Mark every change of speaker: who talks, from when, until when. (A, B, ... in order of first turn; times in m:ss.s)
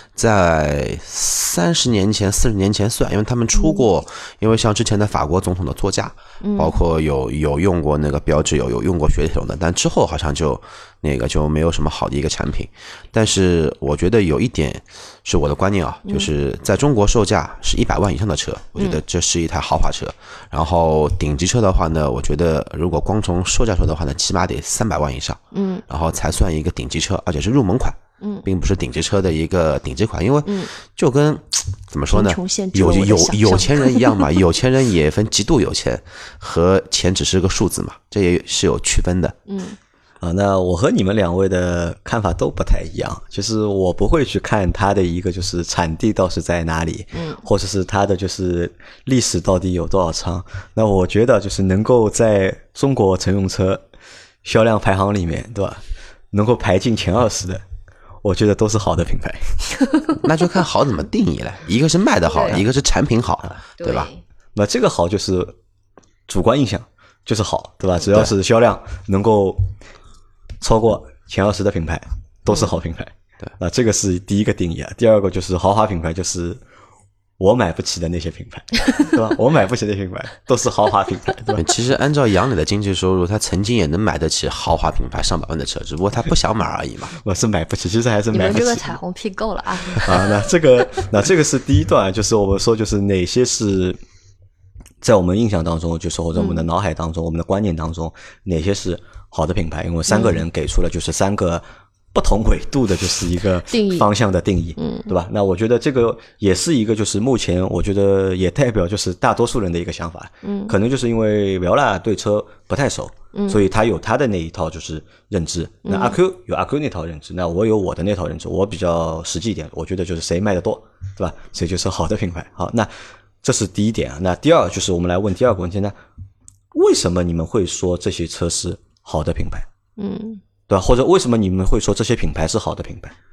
0:00.2-0:39.4 A
0:03.5-0:03.9 B
0:06.4-0:06.8 B
0:25.5-0:25.8 B
0:28.2-0:28.4 B
0:30.4-0:30.7 B
0:32.1-0:34.3 B
0:39.5-0:39.8 B
0:40.2-0:53.8 C
0:47.1-0:47.4 B
0:54.4-0:57.6 C
0:58.2-0:59.7 C
1:00.2-1:04.1 A
1:02.3-1:02.6 B
1:03.8-1:04.2 B
1:04.5-1:05.6 C
1:06.3-1:09.7 C
1:10.6-1:16.6 C
1:17.4-1:21.6 C
1:21.5-1:27.2 A
1:27.2-1:28.9 C
1:28.3-1:30.5 B
1:29.9-1:34.0 C
1:35.0-2:02.9 C
1:36.3-1:36.6 B
1:40.1-1:40.4 B
1:43.7-1:44.1 B
1:44.8-1:45.1 B
1:50.4-1:50.8 B
1:53.3-1:53.6 B
1:55.8-1:56.2 B
2:03.4-2:05.9 C
2:06.7-2:09.6 C
2:10.0-2:10.4 B
2:10.7-2:13.1 C